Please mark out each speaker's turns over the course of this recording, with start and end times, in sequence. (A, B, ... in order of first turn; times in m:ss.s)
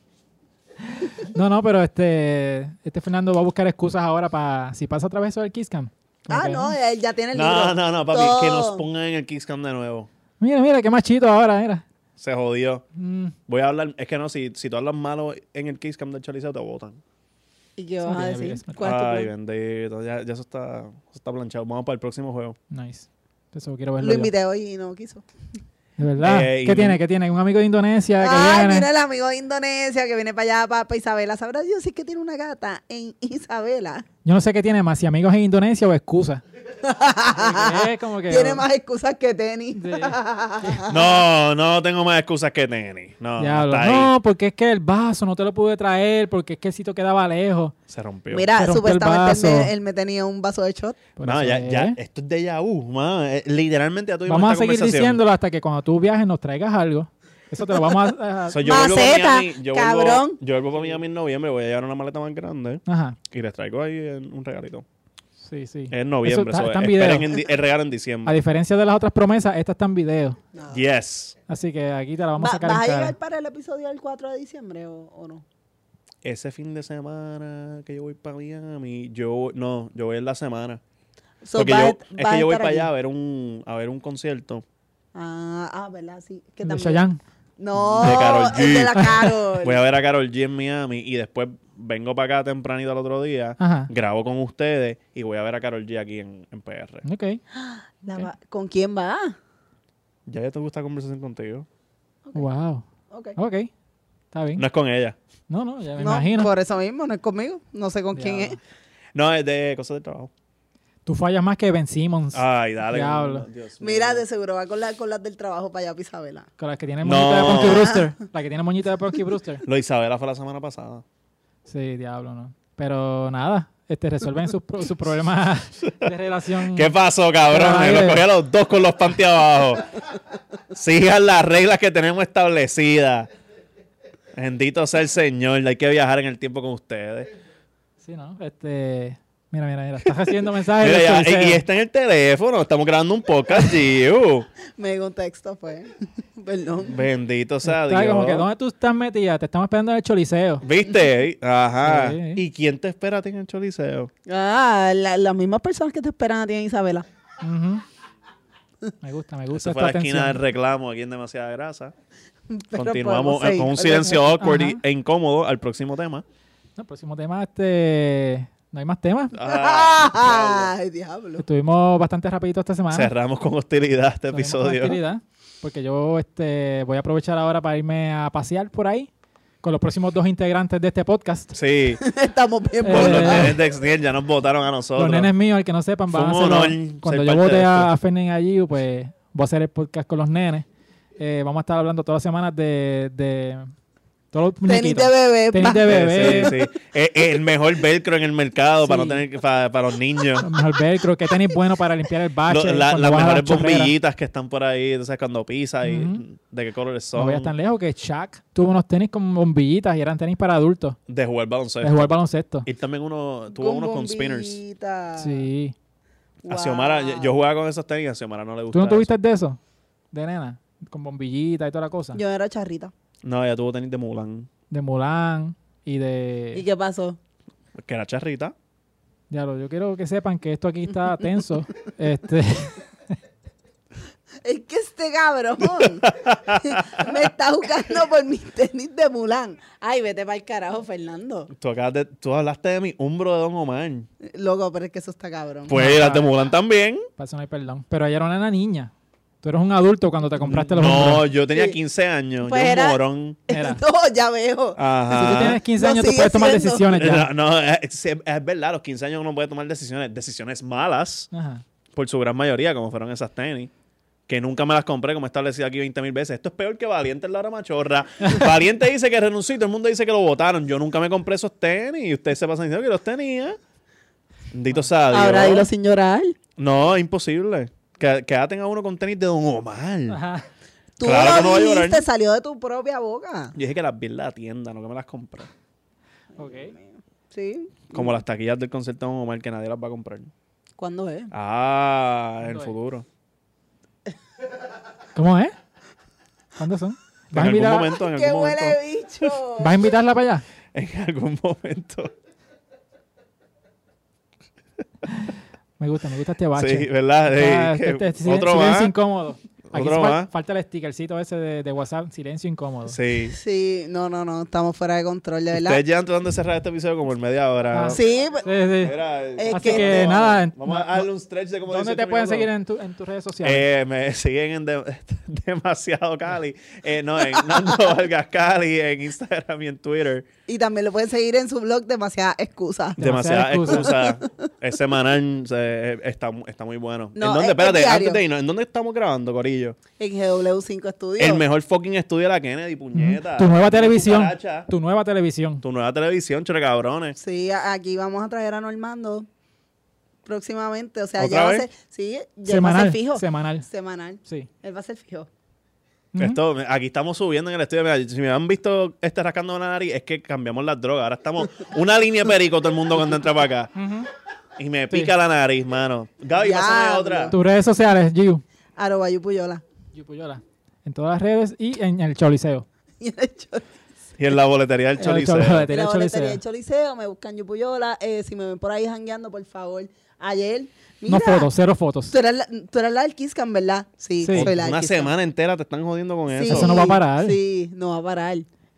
0:00.9-0:06.7 A
0:06.3-0:08.8 B
0:07.3-0:10.1 C
0:10.4-0:11.8 A
0:12.2-0:12.8 C
0:13.0-0:13.4 A
0:13.5-0:17.0 C
0:17.8-0:19.3 B
0:18.0-0:18.8 A
0:18.8-0:22.6 C
0:22.7-0:24.3 A
0:24.0-0:25.2 B
0:26.0-0:28.9 A
0:26.2-0:27.0 C
0:28.2-0:34.1 B
0:34.2-0:36.4 A
0:36.8-0:41.2 B
0:37.4-0:38.6 A
0:39.8-0:40.2 A
0:40.9-0:44.1 C
0:43.4-0:47.7 A
0:47.9-0:48.5 C
0:48.3-0:51.0 B
0:48.6-0:49.7 A
0:51.2-0:52.0 A
0:51.2-0:55.2 C
0:54.3-0:58.7 A
0:58.5-1:04.8 C
0:58.6-1:00.4 B
1:02.9-1:03.2 A
1:05.4-1:07.4 A
1:05.9-1:08.4 C
1:08.2-1:10.4 A
1:10.5-1:10.8 B
1:10.7-1:11.4 C
1:11.5-1:13.2 A
1:12.4-1:15.4 B
1:16.2-1:20.8 C
1:21.4-1:22.9 B
1:21.6-1:24.6 C
1:25.1-1:29.8 B
1:26.6-1:27.2 A
1:27.8-1:37.0 C
1:28.0-1:29.3 A
1:33.6-1:33.9 A
1:37.0-1:37.4 A
1:37.5-1:39.4 B
1:40.3-1:41.7 C
1:42.4-1:43.7 A
1:43.1-1:43.4 B
1:44.3-1:44.6 A
1:44.6-1:45.2 C
1:45.5-1:46.5 A
1:46.0-1:48.6 B
1:48.1-1:48.6 A
1:49.2-1:50.3 C
1:51.1-1:53.5 A
1:52.3-1:54.2 C
1:53.8-1:56.5 B
1:56.6-1:59.6 A
1:57.0-1:57.9 C
1:59.6-2:01.0 C
2:01.7-2:06.9 A
2:06.7-2:09.9 C
2:07.5-2:08.3 A
2:10.7-2:13.3 C
2:14.4-2:17.3 C
2:18.0-2:21.6 A
2:20.8-2:24.5 C
2:24.8-2:27.0 B
2:26.8-2:28.5 C
2:27.6-2:30.6 A
2:30.6-2:34.1 C
2:31.8-2:32.4 A
2:34.3-2:37.1 B
2:37.4-2:37.8 A
2:39.0-2:40.4 A
2:39.5-2:41.9 C
2:42.5-2:44.4 B
2:42.7-2:46.2 C
2:44.4-2:44.8 A
2:46.8-2:49.4 A
2:49.3-2:50.7 C
2:49.4-2:51.4 B
2:51.4-2:53.1 A
2:52.9-2:55.0 C
2:54.3-2:59.1 A
2:59.6-3:01.6 A
3:01.5-3:02.0 C
3:02.0-3:03.6 B
3:02.8-3:03.6 A
3:02.9-3:05.3 C
3:05.0-3:10.6 A
3:06.1-3:07.9 C
3:11.2-3:13.7 A
3:14.3-3:16.5 A
3:14.7-3:16.7 B
3:15.9-3:20.5 C
3:20.4-3:23.9 A
3:22.5-3:27.5 C
3:25.8-3:26.2 A
3:27.1-3:31.0 A
3:31.1-3:32.1 C
3:31.8-3:32.7 A
3:32.6-3:34.6 C
3:33.5-3:35.5 B
3:35.2-3:35.8 A
3:36.4-3:37.3 B
3:36.5-3:39.1 C
3:38.7-3:39.6 A
3:40.1-3:42.2 A
3:42.2-3:42.9 B
3:43.2-3:44.5 C
3:44.7-3:46.6 A
3:46.5-3:47.2 B
3:47.8-3:48.5 C
3:49.3-3:52.9 A
3:54.4-4:01.5 B
3:55.7-3:57.3 C
4:01.5-4:04.1 C
4:04.2-4:05.7 B
4:05.7-4:07.0 C
4:05.7-4:06.3 A
4:07.2-4:11.3 A
4:10.4-4:13.4 C
4:12.4-4:16.9 B
4:13.5-4:13.8 A
4:14.8-4:15.6 C
4:15.1-4:17.3 A
4:16.9-4:21.3 C
4:21.3-4:21.6 A
4:21.9-4:23.7 C
4:24.3-4:33.6 C
4:34.5-4:35.7 C
4:35.1-4:36.4 B
4:36.6-4:40.2 C
4:40.1-4:40.5 A
4:41.0-4:43.6 B
4:41.0-4:42.0 C
4:43.6-4:45.5 C
4:46.4-4:48.2 B
4:46.4-4:46.7 A
4:47.9-4:50.3 C
4:50.8-4:51.3 B
4:51.3-4:53.1 C
4:52.4-4:52.7 A
4:55.2-4:55.5 A
4:56.6-4:57.9 A
4:57.3-4:59.3 C
4:57.8-4:59.8 B
4:59.6-5:00.4 A
5:00.7-5:02.1 C
5:05.1-5:13.0 A
5:06.6-5:08.9 C
5:09.7-5:10.3 C
5:12.9-5:13.4 C
5:13.3-5:15.8 B
5:15.5-5:18.0 C
5:17.7-5:19.0 A
5:17.9-5:18.5 B
5:18.8-5:22.5 C
5:19.4-5:20.1 B
5:19.5-5:21.1 A
5:21.7-5:23.7 A
5:23.4-5:30.3 C
5:30.5-5:33.0 B
5:33.0-5:33.9 A
5:33.0-5:39.8 C
5:33.7-5:34.5 B
5:37.2-5:38.2 B
5:40.0-5:41.4 B
5:41.2-5:44.7 C
5:42.9-5:45.6 A
5:45.6-5:47.2 C
5:47.2-5:49.3 B
5:50.3-5:55.3 B
5:51.2-5:51.7 C
5:52.5-5:53.7 A
5:56.1-5:56.4 A
5:56.2-6:03.7 C
6:03.8-6:04.1 A
6:04.6-6:07.3 C
6:06.4-6:07.4 B
6:07.3-6:08.4 A
6:08.8-6:09.6 B
6:09.9-6:12.6 A
6:13.0-6:13.7 B
6:14.2-6:15.7 C
6:15.0-6:16.4 A
6:15.7-6:21.5 B
6:21.1-6:22.1 A
6:22.1-6:25.1 B
6:24.2-6:24.5 A
6:24.3-6:26.9 C
6:26.3-6:28.5 B
6:26.5-6:27.4 A